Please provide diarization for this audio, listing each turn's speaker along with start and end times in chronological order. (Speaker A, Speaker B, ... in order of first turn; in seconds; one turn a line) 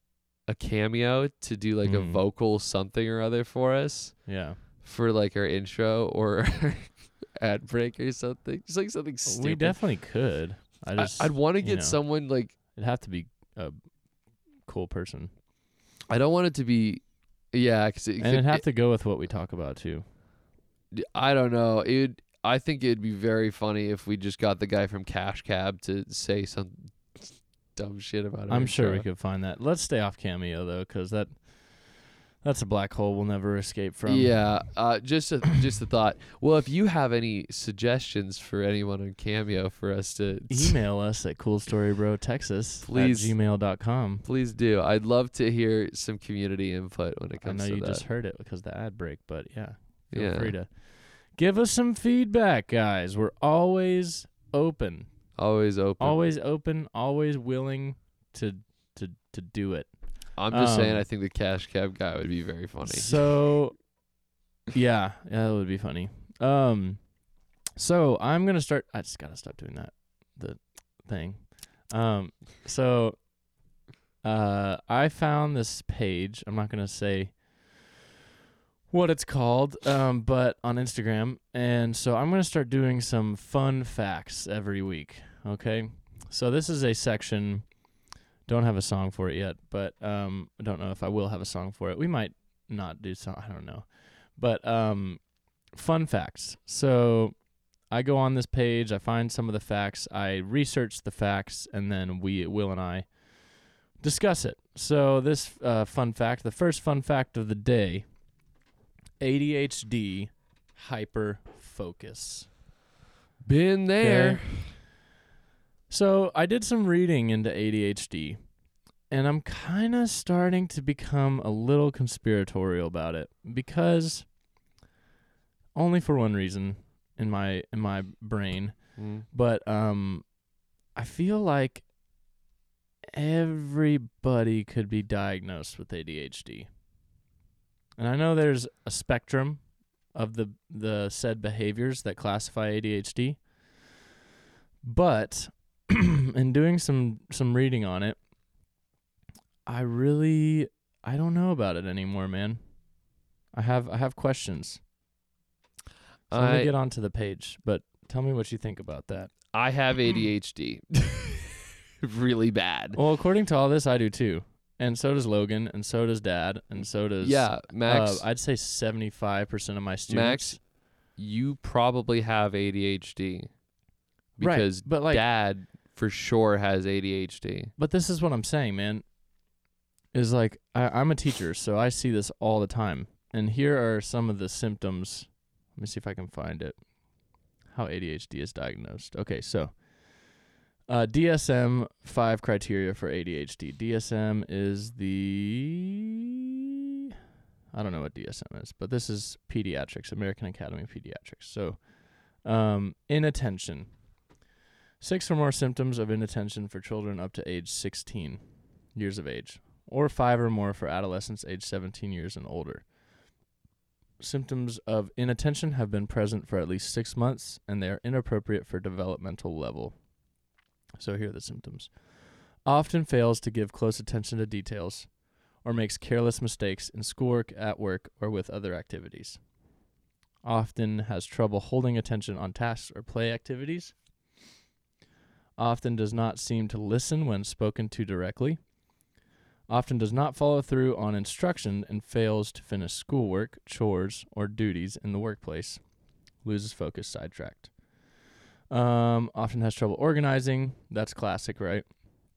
Speaker A: 0.5-4.2
Speaker B: 1.8-2.2
Speaker B: 4.3-4.6
Speaker A: 4.8-9.8
Speaker B: 9.3-12.0
Speaker A: 11.0-12.6
Speaker B: 12.7-13.8
Speaker B: 14.6-15.3
Speaker A: 16.1-18.6
Speaker B: 18.2-20.1
Speaker A: 20.9-29.1
Speaker B: 28.5-34.5
Speaker A: 34.1-40.8
Speaker B: 40.5-44.2
Speaker A: 42.8-43.4
Speaker A: 44.2-48.0
Speaker B: 47.4-55.1
Speaker A: 50.1-50.5
Speaker A: 55.4-56.2
Speaker B: 56.0-59.9
Speaker A: 60.4-63.2
Speaker B: 60.5-61.0
Speaker B: 62.9-63.8
Speaker B: 64.7-67.0
Speaker B: 67.8-73.2
Speaker B: 74.2-77.8
Speaker B: 78.9-87.7
Speaker B: 88.5-97.4
Speaker B: 97.9-108.1
Speaker B: 109.2-112.5
Speaker A: 113.4-114.8
Speaker B: 114.0-114.5
Speaker B: 115.9-118.4
Speaker B: 119.1-124.3
Speaker B: 125.8-130.3
Speaker A: 129.0-129.2
Speaker B: 130.9-131.9
Speaker B: 133.1-136.7
Speaker B: 138.0-139.6
Speaker B: 140.1-143.4
Speaker B: 144.8-148.2
Speaker B: 149.7-152.6
Speaker B: 153.5-154.8
Speaker A: 156.3-156.7
Speaker B: 156.3-159.3
Speaker A: 159.5-163.0
Speaker B: 162.9-170.6
Speaker A: 167.2-168.2
Speaker A: 170.1-173.5
Speaker A: 174.4-177.7
Speaker B: 174.4-175.2
Speaker B: 177.8-179.1
Speaker B: 180.1-186.8
Speaker B: 187.7-189.9
Speaker B: 190.9-195.9
Speaker B: 197.7-203.9
Speaker B: 205.0-208.4
Speaker B: 208.9-212.9
Speaker B: 214.2-220.0
Speaker B: 221.0-221.9
Speaker B: 222.6-225.1
Speaker B: 225.6-229.4
Speaker B: 230.4-233.9
Speaker B: 235.6-238.6
Speaker B: 239.7-245.8
Speaker B: 246.4-247.7
Speaker B: 248.7-251.9